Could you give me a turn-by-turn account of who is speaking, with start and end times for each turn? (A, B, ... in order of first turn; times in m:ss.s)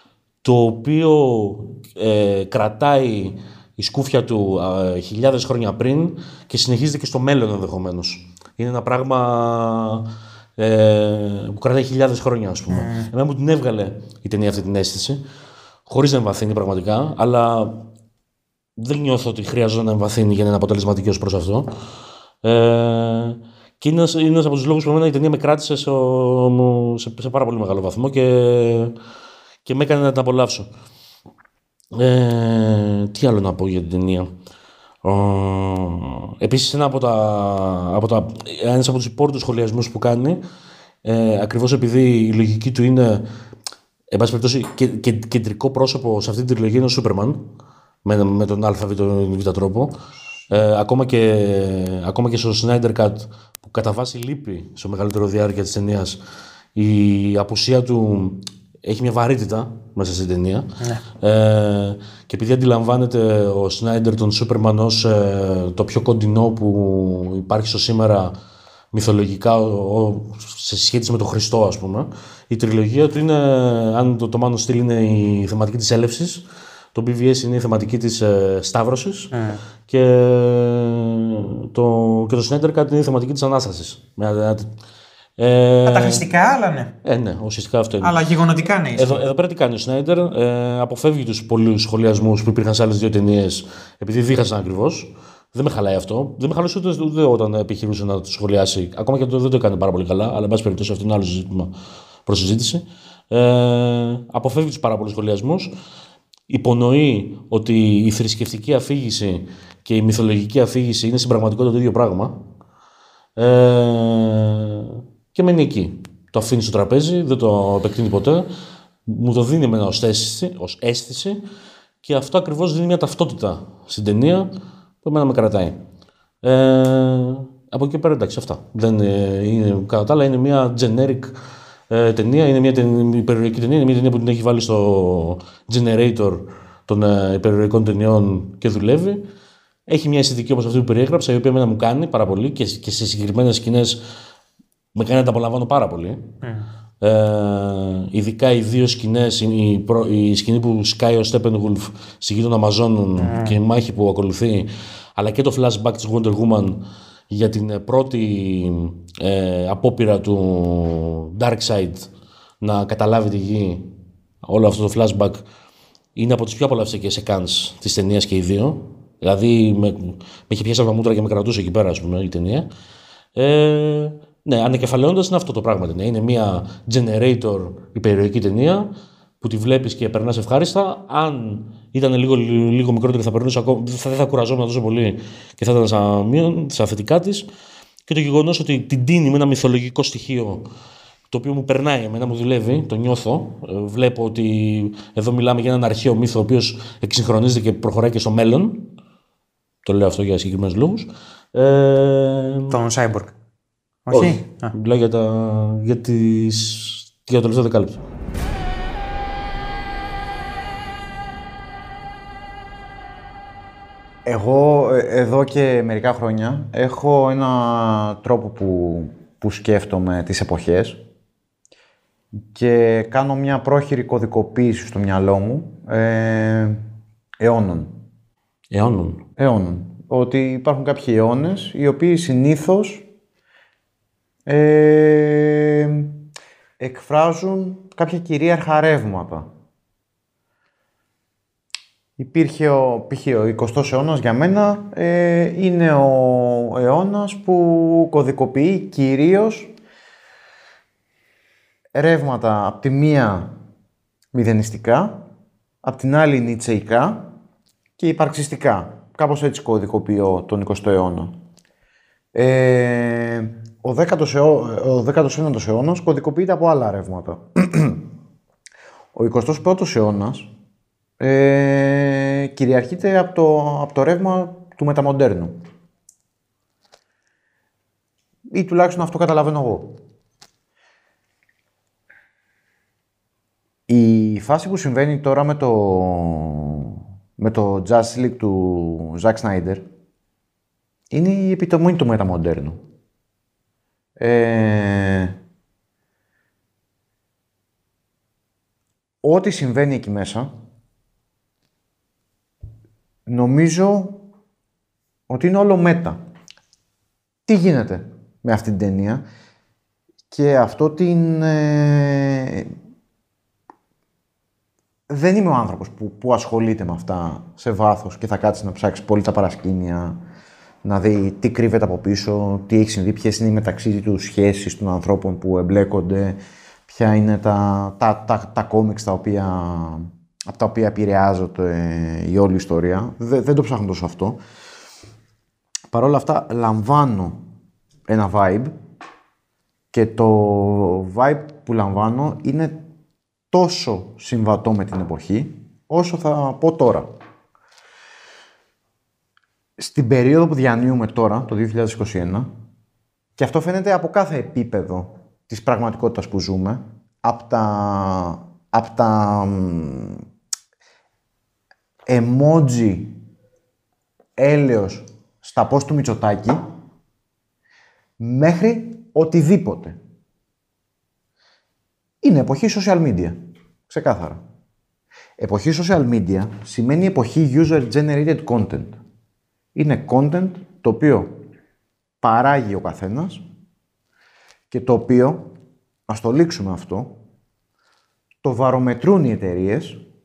0:00.4-0:15.2 A
0:12.7-0:13.1 B
0:15.9-0:17.9 A
0:18.8-0:21.7 A
0:22.4-0:29.0 A
0:29.6-0:30.7 A
0:31.9-0:34.3 A
0:35.0-0:40.4 A
0:41.0-0:43.3 A
0:44.1-0:47.5 A
0:48.0-0:50.0 A
0:50.5-0:56.2 A
0:56.8-1:08.3 A
1:08.9-1:16.4 A
1:17.0-1:19.3 A
1:19.3-1:19.6 B
1:19.9-1:24.7 A
1:25.4-1:26.2 A
1:25.9-1:26.9 B
1:27.0-1:28.2 A
1:28.0-1:29.2 B
1:28.9-1:41.8 A
1:42.3-1:45.8 A
1:46.5-1:52.4 A
1:53.4-1:58.5 A
1:59.1-2:01.4 A
2:02.0-2:04.5 A
2:05.0-2:05.8 A
2:06.4-2:11.3 A
2:11.9-2:19.3 A
2:19.9-2:24.0 A
2:25.0-2:26.3 A
2:27.0-2:42.1 A
2:33.2-2:33.6 B
2:42.6-2:43.9 A
2:44.4-2:45.4 A
2:46.2-2:52.7 A
2:53.4-3:07.5 A
3:08.1-3:10.7 A
3:11.3-3:18.9 A
3:19.8-3:22.8 A
3:22.7-3:23.3 B
3:24.1-3:24.7 B
3:24.1-3:28.0 A
3:34.2-3:41.0 C
3:42.5-3:46.8 C
3:47.4-3:48.0 C
3:48.7-3:49.2 A
3:49.4-3:53.0 C
3:54.5-3:56.2 C
3:56.8-3:59.5 C
4:02.2-4:09.7 C
4:11.9-4:13.6 C
4:14.3-4:15.2 C
4:15.8-4:17.3 C
4:18.0-4:21.4 C
4:22.3-4:28.1 C
4:29.2-4:30.5 C
4:31.2-4:35.6 C
4:38.5-4:40.0 C
4:43.9-4:49.8 C
4:51.1-4:52.8 C
4:54.2-4:55.4 C
4:59.2-5:00.5 C
5:03.3-5:04.2 C
5:05.3-5:06.2 C
5:07.5-5:09.2 C
5:10.3-5:12.7 C
5:15.1-5:20.2 C
5:20.8-5:26.4 C
5:26.9-5:34.4 C
5:35.9-5:37.4 C
5:38.1-5:38.7 C
5:39.9-5:42.8 C
5:43.5-5:47.1 C
5:49.8-5:52.5 C
5:53.4-6:00.2 C
6:02.1-6:03.2 C
6:04.4-6:06.6 C
6:08.2-6:10.0 C
6:12.2-6:13.4 C
6:13.9-6:14.4 C
6:15.4-6:19.0 C
6:19.8-6:21.4 C
6:22.2-6:23.4 C
6:24.7-6:25.5 C
6:26.1-6:27.2 C
6:28.4-6:30.0 C